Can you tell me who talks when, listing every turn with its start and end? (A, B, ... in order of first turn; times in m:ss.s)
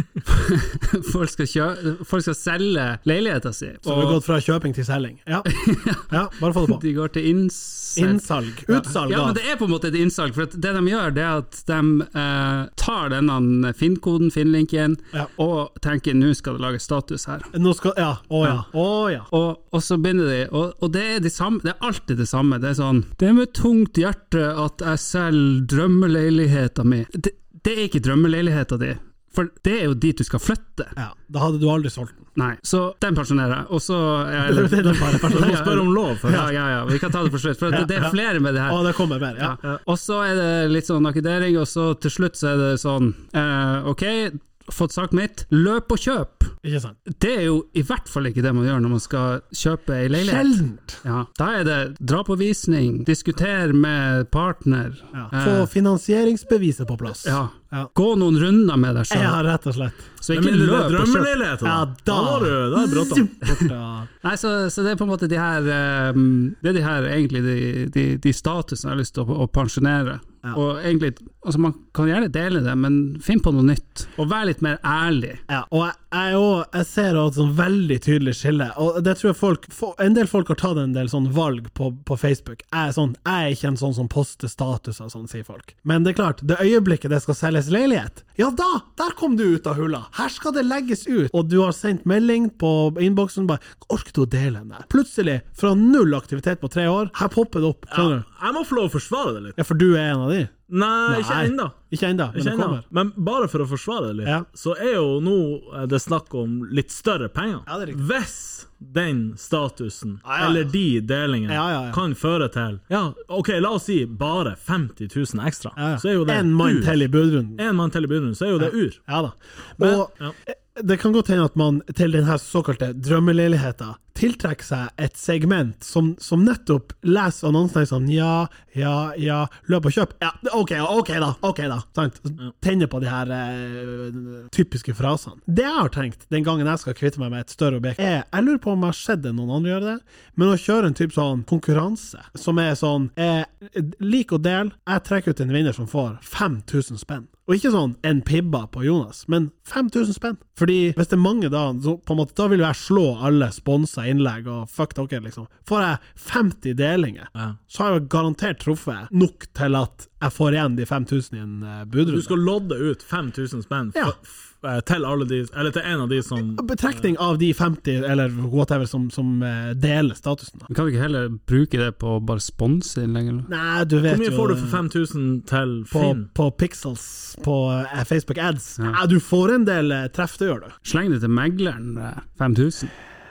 0:00.3-0:04.2 A
0:03.8-0:05.5 B
0:05.5-0:17.5 A
0:06.1-0:06.8 B
0:08.0-0:09.4 B
0:17.5-0:19.3 B
0:19.3-0:31.0 A
0:31.0-0:32.3 B
0:32.4-0:46.6 A
0:34.4-0:36.5 B
0:35.3-0:36.5 C
0:37.7-0:39.6 B
0:46.6-0:47.0 B
0:47.1-0:55.7 A
0:50.1-0:51.0 B
0:55.1-0:57.9 B
0:57.2-0:59.4 A
0:59.1-1:00.1 B
1:00.2-1:01.3 A
1:00.3-1:03.4 C
1:01.6-1:04.1 B
1:04.2-1:15.4 A
1:15.5-1:38.2 B
1:37.9-1:39.6 C
1:39.6-1:40.5 B
1:40.7-1:41.8 C
1:41.1-1:42.8 B
1:42.3-1:57.0 C
1:47.7-1:48.0 B
1:50.2-1:50.7 B
1:51.5-1:52.0 B
1:55.8-1:57.6 B
1:57.6-1:59.0 C
1:58.6-2:42.3 B
1:59.8-2:00.3 C
2:42.0-2:46.8 C
2:46.5-2:50.7 B
2:50.7-2:53.5 A
2:53.5-2:54.8 B
2:54.1-2:56.3 C
2:55.9-3:00.8 B
3:00.8-3:02.9 A